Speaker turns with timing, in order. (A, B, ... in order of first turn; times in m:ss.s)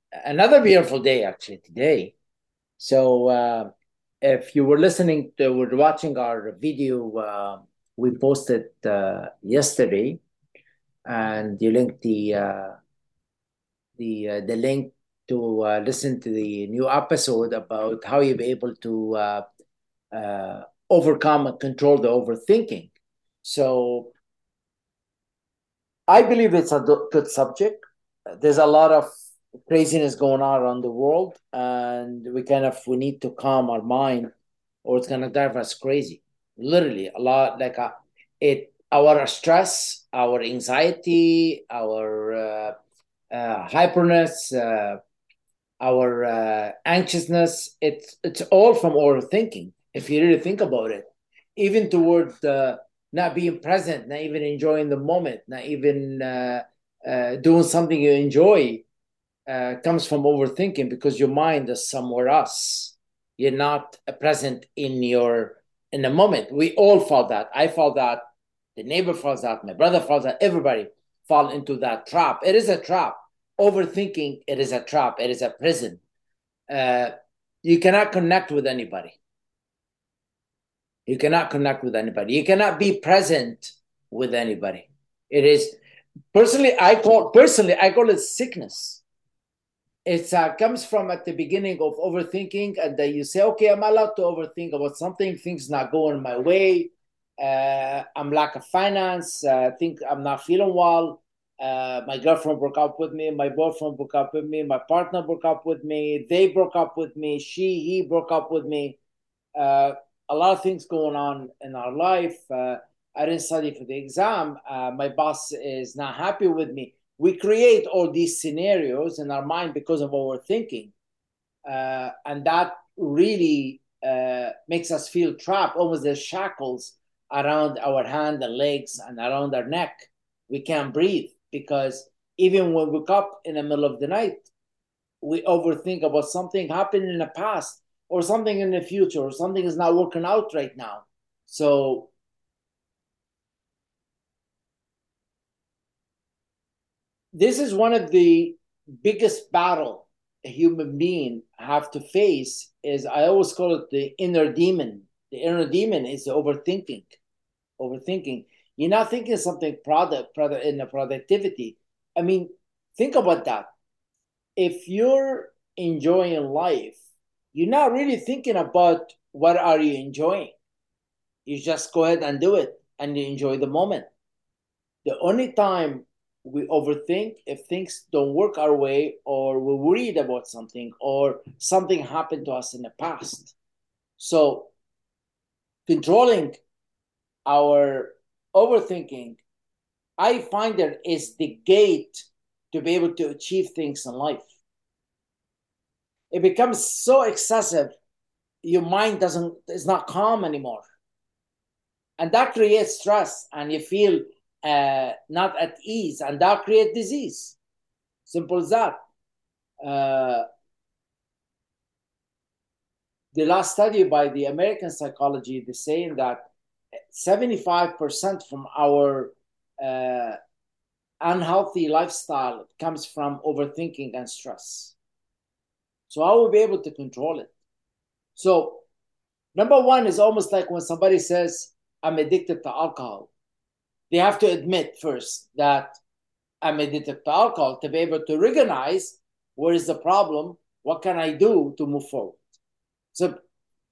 0:00.2-0:02.1 A
0:02.8-0:10.2 A
0:11.0-0:12.8 A
0:14.0-0:19.4 A
0:20.1-0:22.9 A
0:23.4-0:24.1 A
0:26.1-0:27.8 A
0:28.4-0:29.1 A
0:29.7-0:34.3 A
0:34.8-0:42.7 A
0:43.3-0:45.0 A
0:45.8-0:58.8 A
0:59.5-1:08.2 A
1:08.8-1:16.0 A
1:16.7-1:17.1 A
1:17.6-1:19.2 A
1:21.1-1:25.8 A
1:26.3-1:29.0 A
1:30.1-1:49.0 A
1:49.6-2:00.9 A
2:01.7-2:14.5 A
2:15.2-2:22.1 A
2:27.3-2:37.2 A
2:37.8-2:43.7 A
2:44.6-2:47.0 A
2:47.5-2:50.5 A
2:51.4-2:54.1 A
2:55.0-3:03.5 A
3:04.2-3:04.7 A
3:05.9-3:06.6 A
3:07.4-3:09.4 A
3:10.2-3:14.5 A
3:16.3-3:17.9 A
3:18.6-3:20.8 A
3:22.2-3:27.6 A
3:28.2-3:29.0 A
3:29.8-3:30.4 A
3:33.3-3:36.5 A
3:37.1-3:40.4 A
3:41.2-3:45.0 A
3:46.1-3:47.5 A
3:48.4-3:48.8 A
3:49.5-3:53.3 A
3:54.1-3:56.0 A
3:56.6-4:02.5 A